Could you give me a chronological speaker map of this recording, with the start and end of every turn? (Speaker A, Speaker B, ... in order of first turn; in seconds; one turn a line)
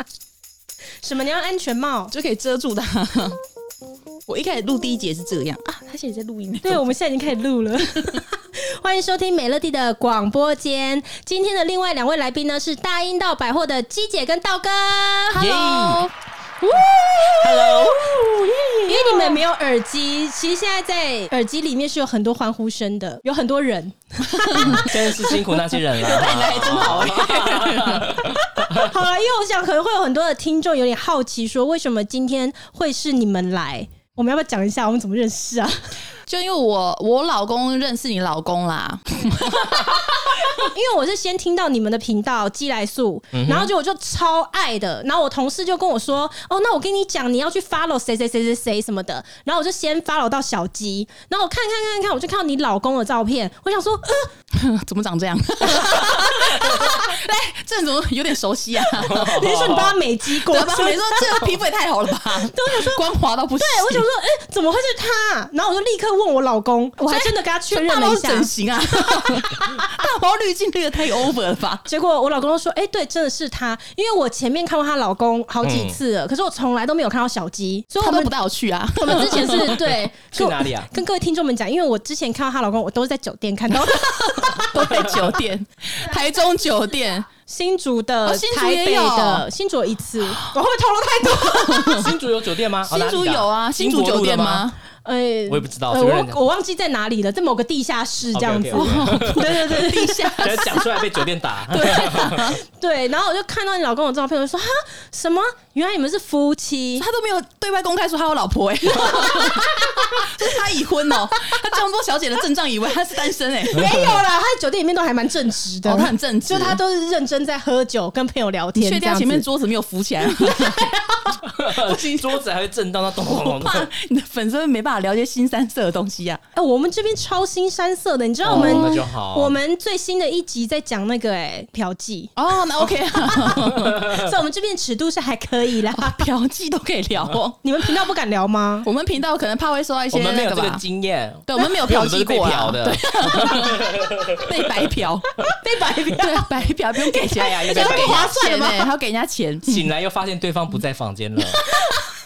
Speaker A: 1.0-2.1
Speaker B: 2.1-3.4
Speaker B: 4.3-6.8
Speaker A: 6.6-15.5
Speaker B: 15.3-16.1
Speaker C: 15.4-16.1
Speaker B: 16.7-19.4
Speaker C: 16.8-18.1
Speaker A: 18.9-24.9
Speaker B: 24.3-28.1
Speaker C: 24.6-28.9
Speaker A: 28.2-35.9
Speaker B: 36.3-39.9
Speaker A: 39.5-54.3
Speaker C: 43.3-43.7
Speaker B: 54.5-59.5
Speaker A: 55.7-57.1
Speaker C: 59.0-60.0
Speaker A: 59.0-61.4
Speaker B: 60.3-64.1
Speaker A: 62.3-69.9
Speaker B: 67.0-71.8
Speaker A: 71.9-78.3
Speaker C: 75.6-76.0
Speaker B: 78.0-79.8
Speaker A: 79.0-85.0
Speaker C: 79.3-80.9
Speaker B: 83.8-87.3
Speaker C: 84.9-85.2
Speaker A: 87.5-92.1
Speaker B: 88.2-89.5
Speaker B: 91.2-92.1
Speaker C: 91.9-94.7
Speaker B: 92.9-94.8
Speaker A: 95.0-100.9
Speaker C: 95.5-96.4
Speaker C: 98.3-99.6
Speaker B: 98.7-100.9
Speaker C: 100.4-102.5
Speaker B: 101.7-102.6
Speaker A: 102.2-107.1
Speaker B: 107.0-114.1
Speaker A: 108.9-110.6
Speaker A: 113.7-119.5
Speaker B: 115.8-116.8
Speaker B: 118.8-120.9
Speaker A: 120.3-121.4
Speaker C: 121.5-123.9
Speaker B: 121.8-122.4
Speaker B: 123.3-126.4
Speaker A: 126.5-132.3
Speaker C: 128.4-129.6
Speaker B: 128.5-129.1
Speaker B: 132.4-134.1
Speaker A: 133.2-136.3
Speaker C: 133.5-134.1
Speaker B: 135.9-137.6
Speaker A: 137.6-138.9
Speaker B: 138.8-140.8
Speaker C: 140.1-144.4
Speaker B: 141.5-145.3
Speaker A: 145.5-146.5
Speaker B: 146.1-149.9
Speaker A: 147.0-148.9
Speaker C: 147.3-148.3
Speaker C: 149.7-151.6
Speaker A: 151.6-152.1